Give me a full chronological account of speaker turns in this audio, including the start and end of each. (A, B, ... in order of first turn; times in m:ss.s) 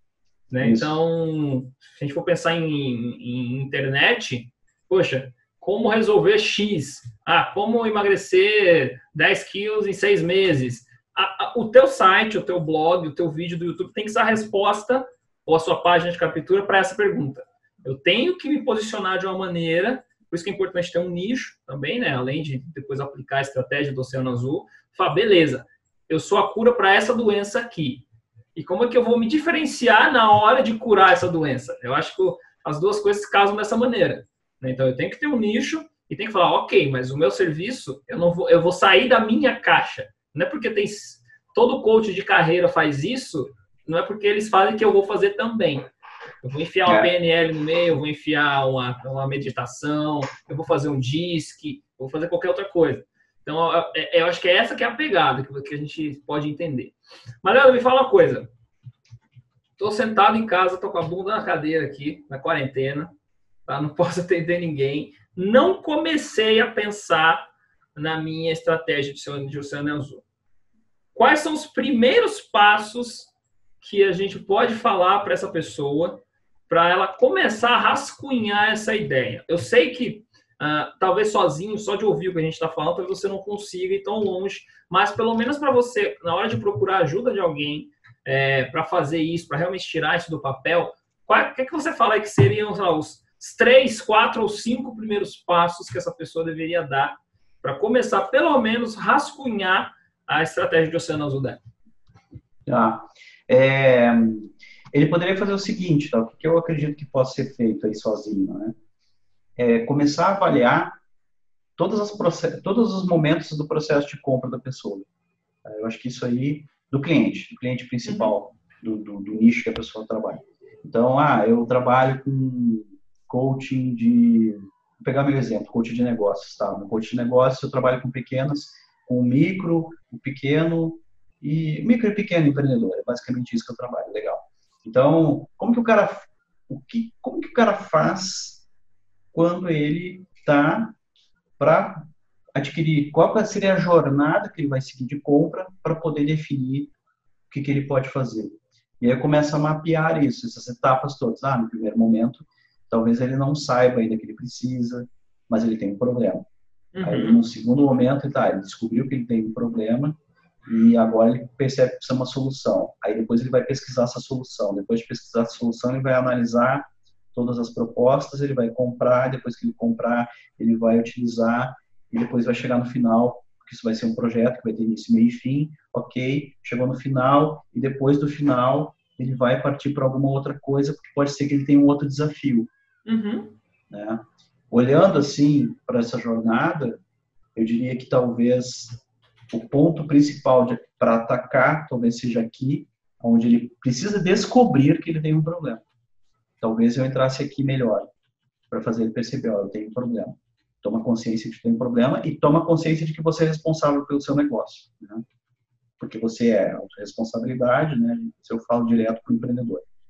0:00.5-0:28.0 A
0:00.6-0:01.0 B
0:28.6-0:45.9 A
0:46.4-0:58.5 A
0:46.8-0:47.1 B
0:59.8-1:03.1 A
1:03.6-1:10.2 A
1:11.1-1:41.6 A
1:42.6-1:48.7 B
1:49.6-1:50.9 B
1:51.8-1:55.0 B
1:55.6-2:18.6 B
1:58.0-1:58.3 A
2:19.3-2:21.0 B
2:21.6-2:22.0 B
2:22.5-2:26.9 B
2:27.5-2:36.4 B
2:36.9-2:37.4 A
2:37.0-3:02.7 B
3:03.0-3:03.6 A
3:03.9-3:07.0 B
3:07.5-3:15.8 B
3:16.6-3:18.1 B
3:18.7-3:25.2 B
3:26.0-3:29.8 B